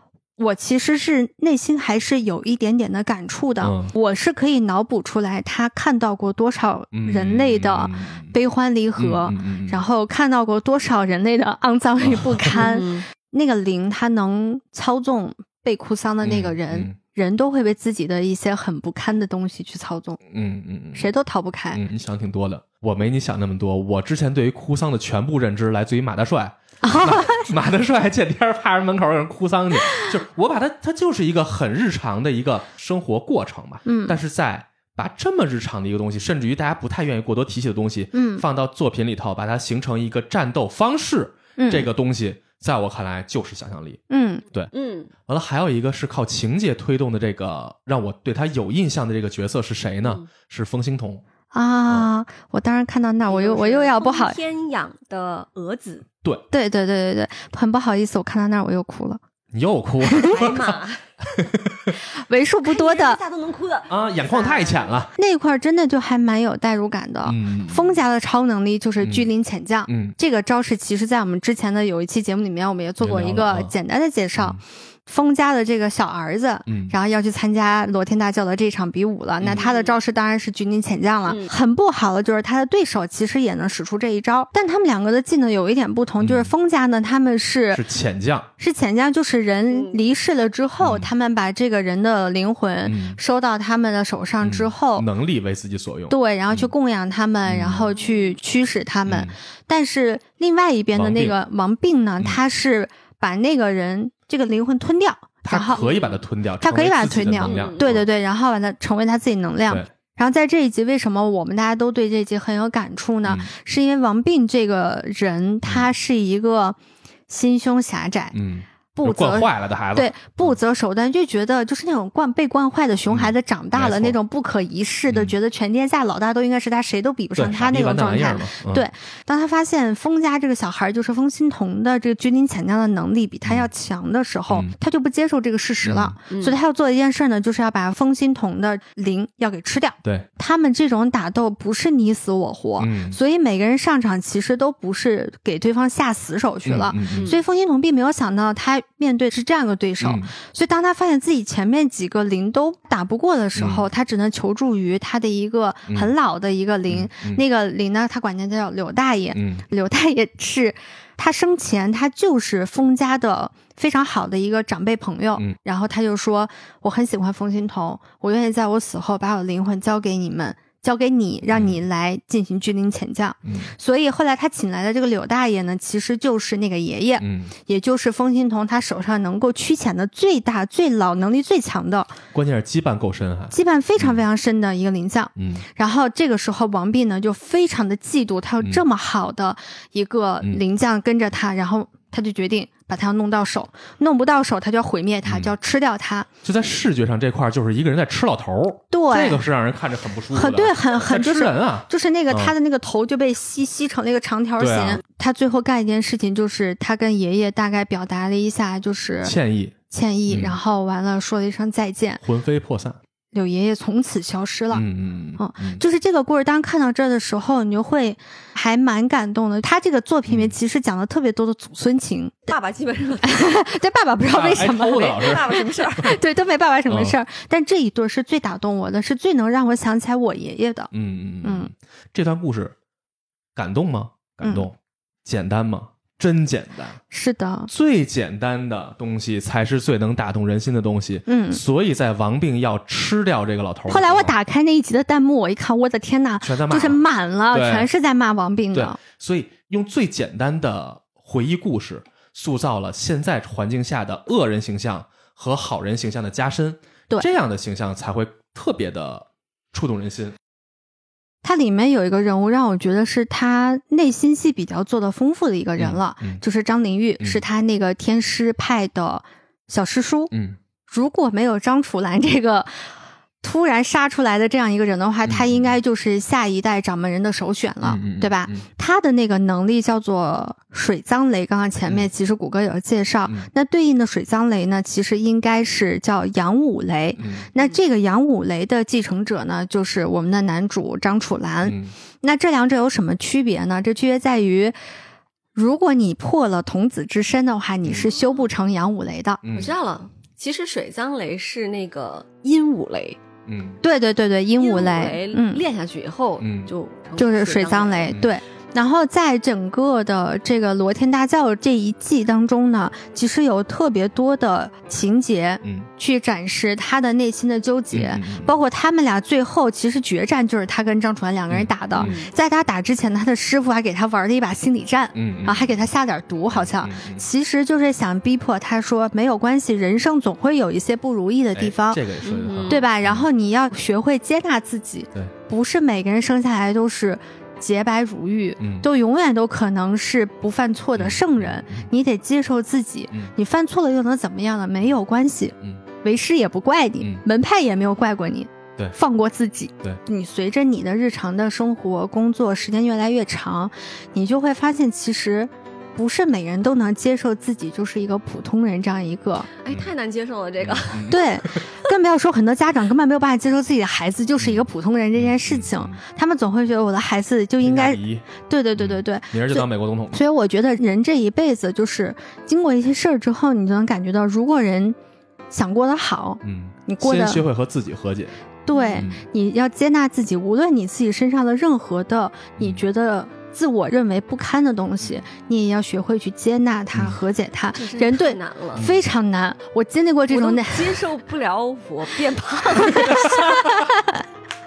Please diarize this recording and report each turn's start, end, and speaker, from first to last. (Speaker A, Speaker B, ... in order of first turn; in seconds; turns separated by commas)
Speaker A: 0.4-20.2, Speaker B: 3.6-3.9, Speaker B: 6.9-8.3, Speaker B: 9.0-9.8, Speaker B: 12.0-12.5, Speaker C: 12.5-13.0, Speaker B: 16.2-17.0, Speaker B: 20.3-21.1, Speaker A: 20.9-21.8, Speaker B: 21.7-44.0, Speaker A: 26.8-27.5, Speaker A: 33.9-34.2, Speaker A: 38.1-38.4, Speaker A: 41.6-41.9, Speaker A: 44.1-44.4, Speaker C: 44.7-45.1, Speaker B: 45.3-51.2, Speaker A: 51.5-54.4, Speaker C: 53.3-56.0, Speaker A: 56.5-59.2, Speaker B: 59.5-61.9, Speaker A: 60.1-60.4, Speaker C: 60.2-61.0, Speaker A: 62.2-63.2, Speaker C: 62.6-64.9, Speaker B: 63.9-65.1, Speaker A: 65.2-87.8, Speaker B: 67.2-68.0, Speaker B: 69.0-69.3, Speaker B: 69.9-70.1, Speaker B: 73.0-73.7, Speaker B: 76.7-76.9, Speaker B: 79.4-79.6, Speaker C: 79.5-80.0, Speaker B: 86.2-86.5, Speaker B: 87.7-88.5, Speaker A: 88.6-95.1, Speaker C: 89.7-90.0, Speaker B: 90.8-91.1, Speaker B: 92.8-93.2, Speaker B: 94.4-96.7, Speaker A: 96.1-105.9, Speaker B: 97.4-97.9, Speaker B: 99.0-99.3, Speaker B: 100.9-101.3, Speaker B: 105.4-108.0, Speaker C: 105.7-106.2, Speaker A: 106.6-116.8, Speaker C: 107.4-107.9, Speaker B: 113.2-113.5, Speaker A: 117.3-118.4, Speaker B: 118.3-120.6, Speaker A: 118.9-182.2, Speaker B: 123.1-124.2, Speaker B: 125.1-125.3, Speaker B: 127.3-128.9, Speaker B: 133.4-133.7, Speaker B: 135.8-136.2, Speaker C: 136.3-136.6, Speaker B: 142.8-143.2, Speaker B: 146.6-147.3, Speaker C: 147.1-147.4, Speaker B: 150.0-150.3, Speaker B: 153.5-153.9, Speaker B: 156.9-157.4, Speaker B: 159.3-159.6, Speaker B: 171.5-171.8, Speaker B: 173.4-173.7, Speaker B: 177.2-177.5, Speaker B: 182.3-184.2, Speaker A: 183.5-196.3, Speaker B: 185.3-185.6, Speaker B: 195.2-195.5, Speaker B: 196.4-202.5, Speaker A: 198.9-199.4, Speaker A: 200.3-209.3, Speaker B: 204.6-205.0, Speaker B: 209.2-209.8, Speaker A: 209.9-212.2, Speaker B: 210.3-210.6, Speaker B: 212.2-213.0, Speaker A: 213.3-214.8, Speaker B: 214.7-215.8, Speaker A: 215.4-222.5, Speaker B: 220.3-220.6, Speaker C: 222.5-223.6, Speaker A: 223.2-230.9, Speaker B: 224.2-225.6, Speaker C: 224.8-226.2, Speaker B: 226.9-227.2, Speaker B: 230.9-232.7, Speaker A: 231.4-231.7, Speaker B: 233.5-237.0, Speaker A: 234.4-234.7, Speaker A: 237.1-237.7, Speaker B: 237.7-244.3, Speaker A: 241.3-241.6, Speaker A: 243.9-249.0, Speaker B: 246.4-247.9, Speaker B: 248.7-260.4, Speaker A: 261.4-270.3, Speaker B: 265.8-266.4, Speaker B: 270.3-270.6, Speaker A: 270.9-272.9, Speaker A: 273.4-294.8, Speaker B: 275.2-275.7, Speaker B: 277.8-278.6, Speaker B: 287.2-287.5, Speaker B: 291.6-291.9, Speaker A: 295.5-299.4, Speaker B: 297.8-298.1, Speaker B: 299.4-299.7, Speaker C: 299.5-303.2, Speaker B: 303.4-303.8, Speaker A: 303.8-305.6, Speaker C: 304.6-308.2, Speaker B: 306.4-306.7, Speaker A: 307.2-332.0, Speaker B: 317.9-318.5, Speaker B: 321.5-322.1, Speaker C: 322.0-322.3, Speaker B: 325.1-325.8, Speaker B: 326.5-327.2, Speaker B: 331.5-333.2, Speaker C: 332.2-332.8, Speaker A: 332.7-359.5, Speaker B: 338.6-338.9, Speaker B: 340.9-341.9, Speaker C: 359.6-361.3, Speaker B: 360.6-361.4, Speaker A: 361.1-374.9, Speaker B: 364.4-366.0, Speaker B: 367.6-370.2, Speaker A: 375.5-377.4, Speaker B: 376.4-378.4, Speaker A: 378.6-391.0, Speaker C: 378.7-379.0, Speaker B: 378.9-379.2, Speaker B: 382.6-382.8, Speaker C: 387.7-388.8, Speaker B: 388.7-389.0, Speaker C: 390.3-393.7, Speaker A: 392.9-394.2, Speaker B: 393.0-393.8